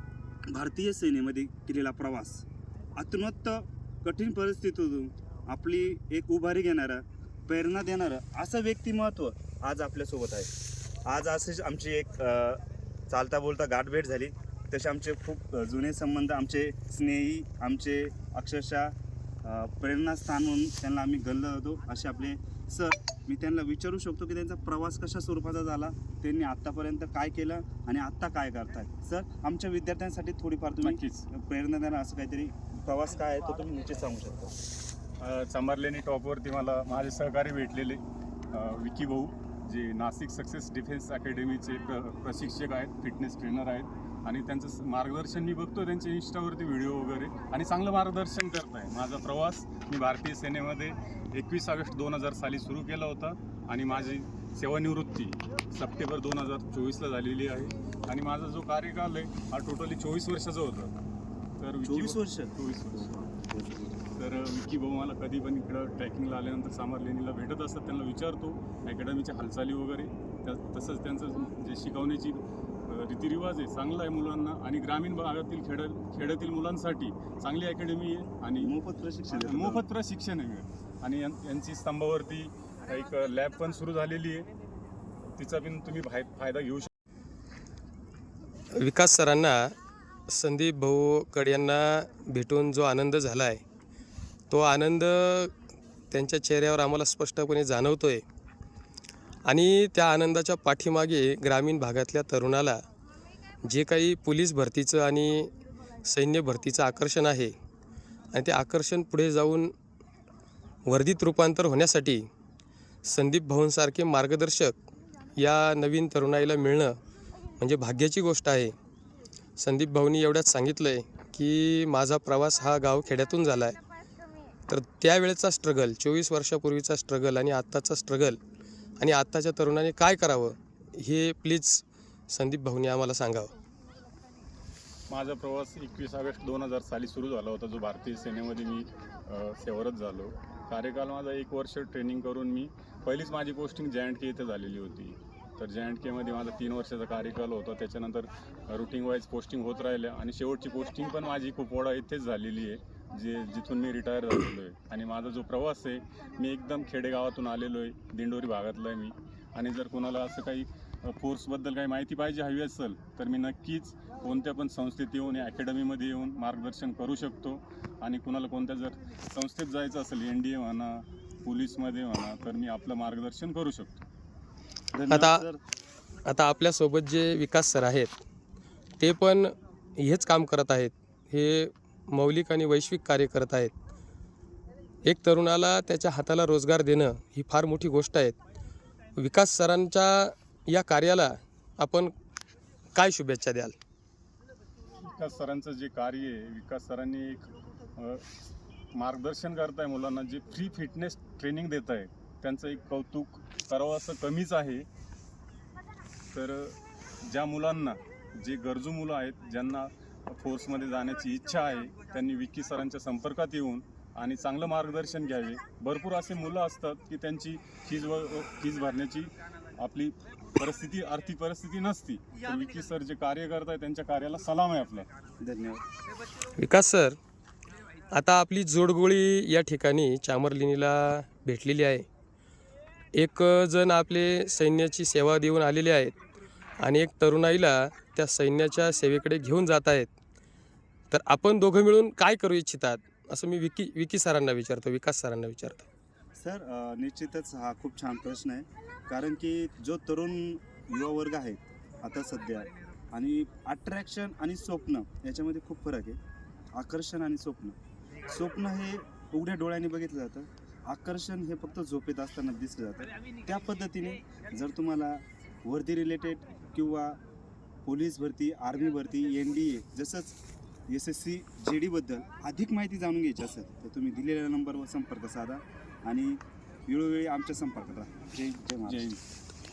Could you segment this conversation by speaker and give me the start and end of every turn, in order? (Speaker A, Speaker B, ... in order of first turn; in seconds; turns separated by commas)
Speaker A: 0.5-2.5, Speaker A: 3.0-10.5, Speaker A: 11.1-34.5, Speaker B: 30.8-31.3, Speaker B: 35.2-60.9, Speaker B: 61.6-63.2, Speaker A: 61.8-64.0, Speaker B: 64.1-78.7, Speaker A: 78.6-79.8, Speaker B: 79.3-84.5, Speaker B: 85.3-86.9, Speaker C: 88.7-89.7, Speaker C: 90.3-93.6, Speaker C: 94.5-95.5, Speaker C: 96.1-98.2, Speaker C: 99.5-102.8, Speaker C: 103.6-105.5, Speaker C: 106.0-107.5, Speaker C: 108.3-109.7, Speaker C: 110.9-112.3, Speaker C: 113.0-114.8, Speaker C: 115.3-117.0, Speaker C: 117.6-118.7, Speaker C: 119.6-123.8, Speaker C: 124.7-128.4, Speaker C: 129.0-133.5, Speaker B: 135.1-174.0, Speaker A: 174.9-175.6, Speaker C: 175.1-175.4, Speaker C: 176.2-178.2, Speaker C: 179.0-183.7, Speaker C: 185.0-188.4, Speaker C: 189.2-192.1, Speaker C: 192.9-193.8, Speaker B: 195.0-198.3, Speaker B: 198.9-204.9, Speaker B: 206.3-225.1, Speaker A: 225.4-225.8, Speaker C: 226.6-227.2, Speaker C: 228.1-232.1, Speaker C: 233.1-236.1, Speaker C: 236.8-240.1, Speaker C: 241.1-245.9, Speaker A: 246.4-256.2, Speaker A: 256.7-257.8, Speaker A: 258.3-267.2, Speaker A: 267.8-270.4, Speaker A: 270.9-279.1, Speaker B: 278.8-279.2